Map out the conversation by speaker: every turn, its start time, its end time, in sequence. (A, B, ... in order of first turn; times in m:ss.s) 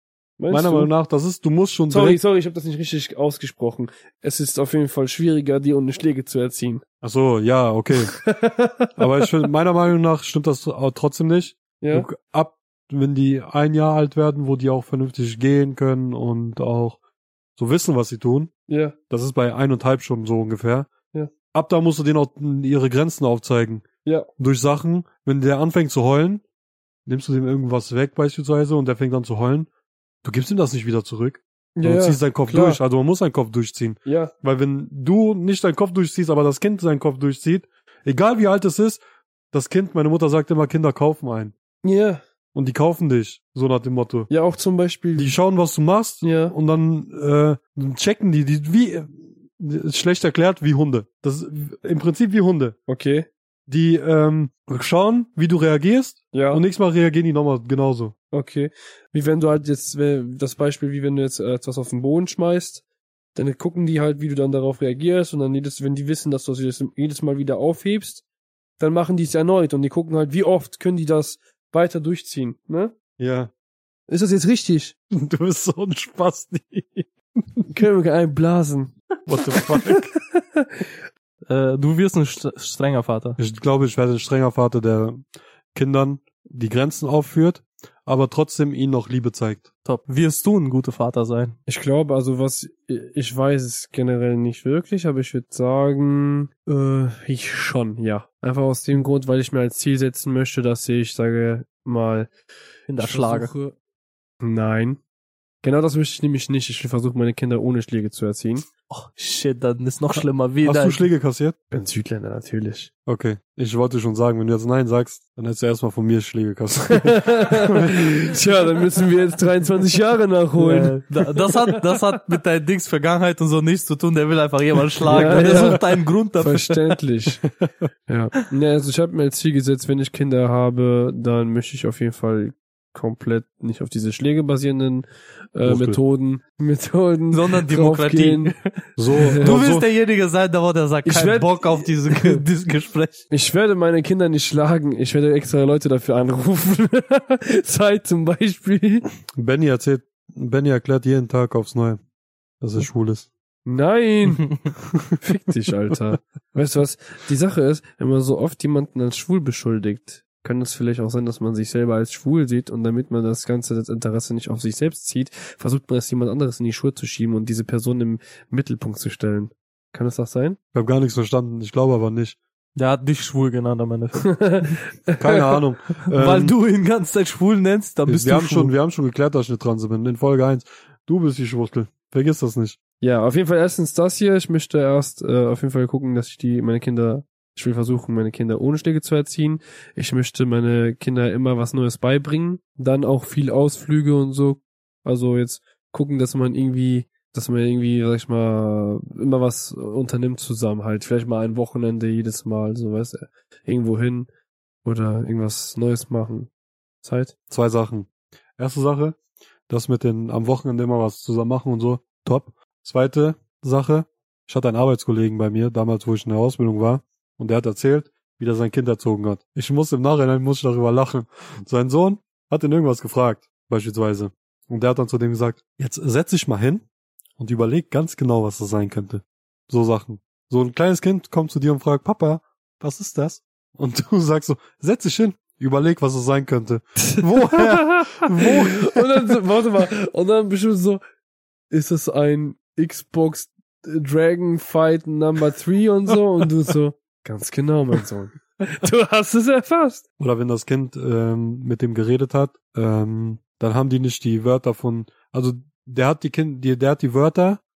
0:00.4-0:00.9 A
0:00.5-0:02.2 B
0:01.9-0:06.8 A
0:07.0-0:08.2 B
0:08.0-0:09.2 A
0:09.0-0:17.0 B
0:11.8-0:12.1 A
0:17.6-0:18.5 B
0:18.7-0:19.0 A
0:19.1-0:20.9 B
0:21.5-0:23.8 B
0:24.4-0:26.4 B
0:27.0-0:29.7 B
0:30.2-0:39.0 B
0:31.8-0:32.8 A
0:34.0-0:34.3 A
0:39.5-0:41.5 B
0:41.8-0:42.2 A
0:42.5-0:44.3 B
0:44.3-0:45.3 A
0:45.2-0:52.8 B
0:46.2-0:46.5 A
0:52.9-0:53.3 A
0:53.7-0:58.1 B
0:56.3-0:56.6 A
0:58.3-1:02.8 A
1:03.3-1:08.2 A
1:08.8-1:12.9 A
1:13.2-1:13.5 B
1:14.1-1:14.9 A
1:15.1-1:17.7 B
1:17.7-1:18.9 A
1:19.2-1:20.1 B
1:19.5-1:20.8 A
1:21.5-1:23.4 C
1:23.4-1:25.2 B
1:25.7-1:29.7 B
1:29.8-1:31.6 C
1:31.7-1:42.3 A
1:42.9-1:43.5 C
1:43.0-1:43.7 A
1:44.4-1:45.0 A
1:45.6-1:48.7 A
1:48.9-1:51.0 C
1:50.6-1:51.6 B
1:51.7-1:52.9 A
1:53.0-1:58.1 B
1:56.9-2:01.1 A
2:00.6-2:07.0 C
2:05.0-2:07.4 A
2:08.1-2:18.5 A
2:15.6-2:16.0 B
2:17.3-2:18.8 C
2:19.0-2:19.9 B
2:19.1-2:19.6 A
2:19.4-2:23.2 C
2:21.0-2:22.4 A
2:23.3-2:29.0 A
2:29.4-2:32.0 B
2:32.6-2:33.3 B
2:33.6-2:50.6 A
2:50.7-2:52.4 B
2:52.7-2:54.7 C
2:54.2-2:55.6 A
2:55.2-2:56.5 B
2:56.1-2:58.7 C
2:58.0-3:02.8 B
3:03.0-3:24.3 A
3:24.8-3:26.5 A
3:27.0-3:27.3 A
3:27.5-3:29.2 B
3:29.7-3:46.8 B
3:47.4-3:59.4 B
3:57.1-4:01.0 A
4:01.7-4:10.0 A
4:10.2-4:17.6 B